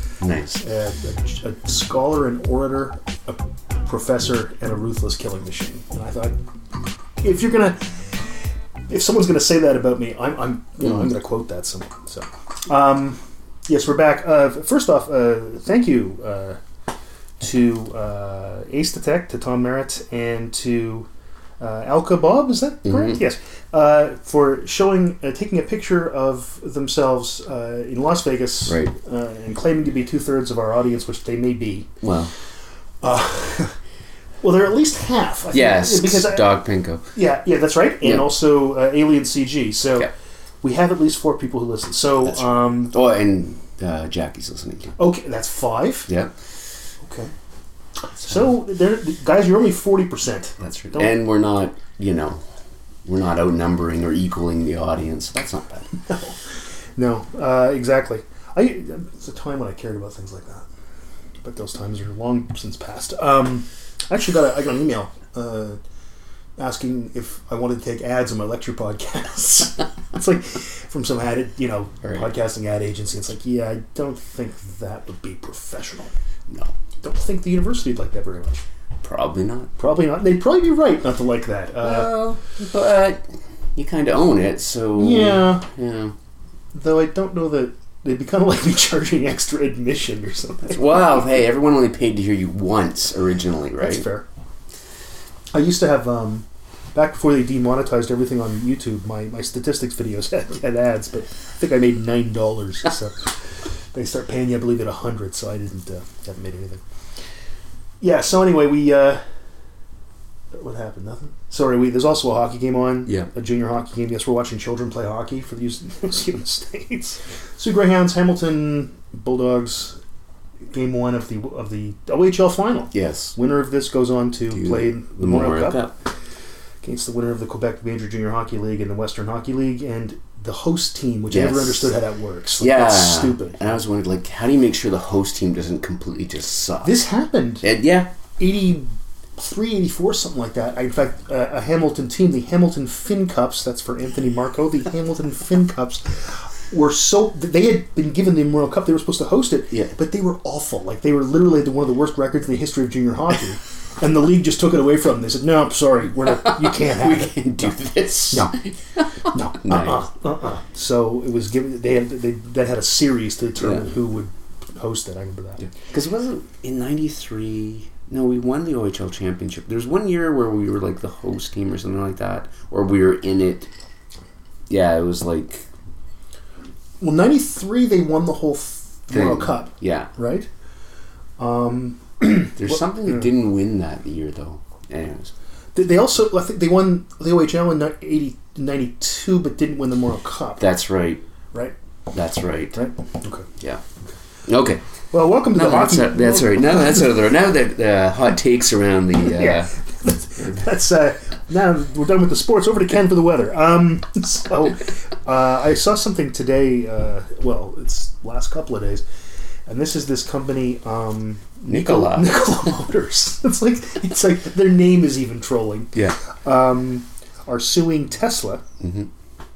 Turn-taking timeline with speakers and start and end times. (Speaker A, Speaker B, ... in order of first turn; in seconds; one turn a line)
Speaker A: 0.2-0.6
Speaker B: 0.6-6.4
Speaker B: 7.2-7.9
Speaker B: 8.9-16.6
Speaker B: 17.4-21.1
Speaker B: 21.6-31.9
Speaker A: 22.9-23.2
Speaker A: 28.7-28.9
Speaker A: 32.0-32.3
Speaker B: 33.0-33.8
Speaker B: 34.4-36.5
Speaker A: 35.5-37.0
Speaker B: 37.1-40.1
Speaker A: 38.0-38.3
Speaker B: 40.6-42.9
Speaker A: 42.2-45.0
Speaker B: 45.0-46.1
Speaker B: 47.0-47.3
Speaker B: 48.2-51.1
Speaker A: 50.6-52.4
Speaker A: 53.1-55.9
Speaker B: 56.1-56.4
Speaker B: 57.0-60.7
Speaker B: 61.4-65.8
Speaker B: 66.6-76.1
Speaker B: 77.0-78.6
Speaker A: 79.0-79.7
Speaker B: 79.8-82.1
Speaker A: 81.8-83.2
Speaker A: 83.8-86.1
Speaker B: 85.0-85.6
Speaker B: 86.7-91.2
Speaker A: 90.7-94.1
Speaker B: 93.8-94.3
Speaker B: 95.5-103.4
Speaker B: 103.9-106.8
Speaker B: 108.0-109.2
Speaker B: 110.5-120.0
Speaker B: 120.7-125.8
Speaker A: 122.9-123.3
Speaker A: 124.5-125.9
Speaker B: 126.8-133.6
Speaker A: 131.3-131.9
Speaker A: 132.6-137.0
Speaker B: 136.8-137.6
Speaker A: 137.6-138.1
Speaker B: 138.4-157.4
Speaker A: 156.3-160.0
Speaker B: 159.3-165.7
Speaker A: 165.6-173.7
Speaker A: 174.7-175.7
Speaker B: 177.0-180.5
Speaker A: 179.1-180.1
Speaker B: 181.4-183.3
Speaker A: 182.6-185.3
Speaker B: 185.8-190.6
Speaker A: 190.6-191.2
Speaker A: 192.1-192.8
Speaker B: 192.7-193.5
Speaker A: 194.5-194.8
Speaker B: 195.1-196.9
Speaker A: 195.5-199.7
Speaker B: 199.2-209.0
Speaker B: 209.7-218.6
Speaker A: 211.7-212.5
Speaker A: 218.8-219.1